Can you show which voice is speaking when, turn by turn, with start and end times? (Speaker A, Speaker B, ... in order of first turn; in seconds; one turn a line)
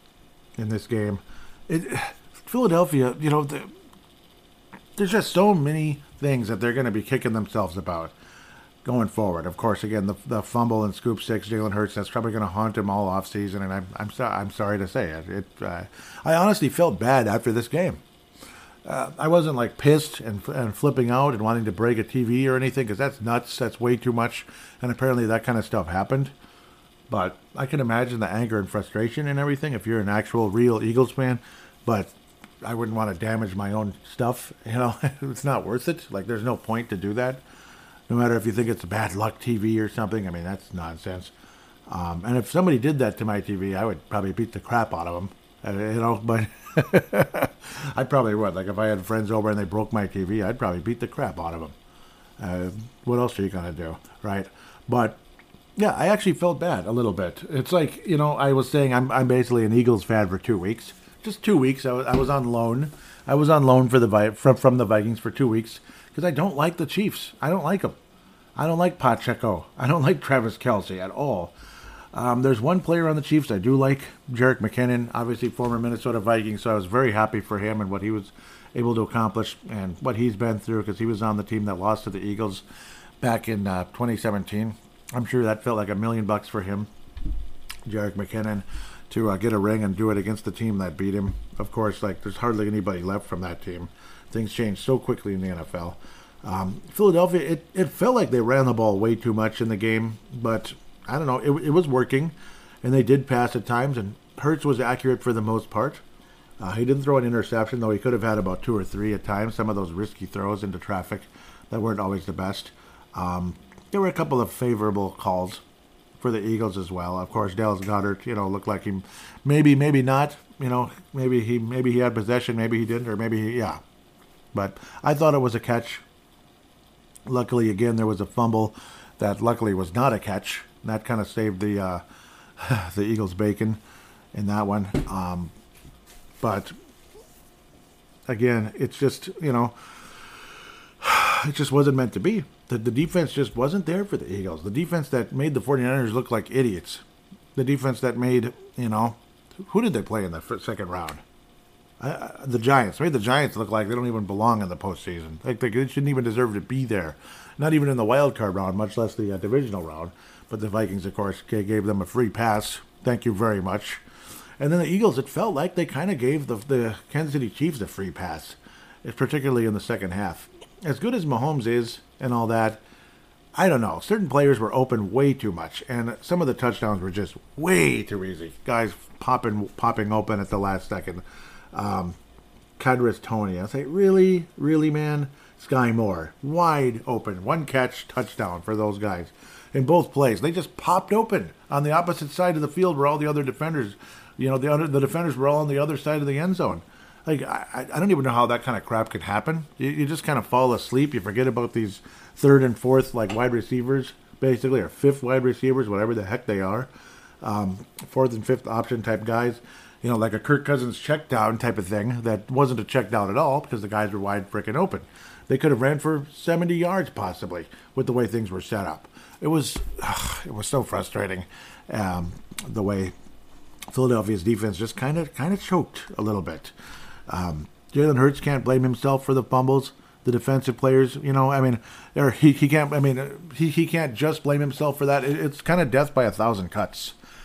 Speaker A: 0.6-3.7
Speaker A: 5.0-8.1
Speaker A: 8.8-18.0
Speaker A: 18.9-26.3
Speaker A: 27.1-37.4
Speaker A: 38.1-41.3
Speaker A: 41.9-51.7
Speaker A: 52.4-55.2
Speaker A: 55.8-68.0
Speaker A: 68.6-71.5
Speaker A: 72.1-82.6
Speaker A: 83.2-86.9
Speaker A: 87.9-106.0
Speaker A: 106.6-115.6
Speaker A: 116.2-123.8
Speaker A: 124.5-126.0
Speaker A: 127.3-132.0
Speaker A: 132.6-133.8
Speaker A: 134.3-135.5
Speaker A: 136.4-136.7
Speaker A: 138.3-140.2
Speaker A: 141.0-147.0
Speaker A: 147.6-151.2
Speaker A: 152.0-164.0
Speaker A: 164.6-172.8
Speaker A: 173.6-182.2
Speaker A: 182.8-206.9
Speaker A: 207.4-223.1
Speaker A: 223.9-226.7
Speaker A: 227.3-237.2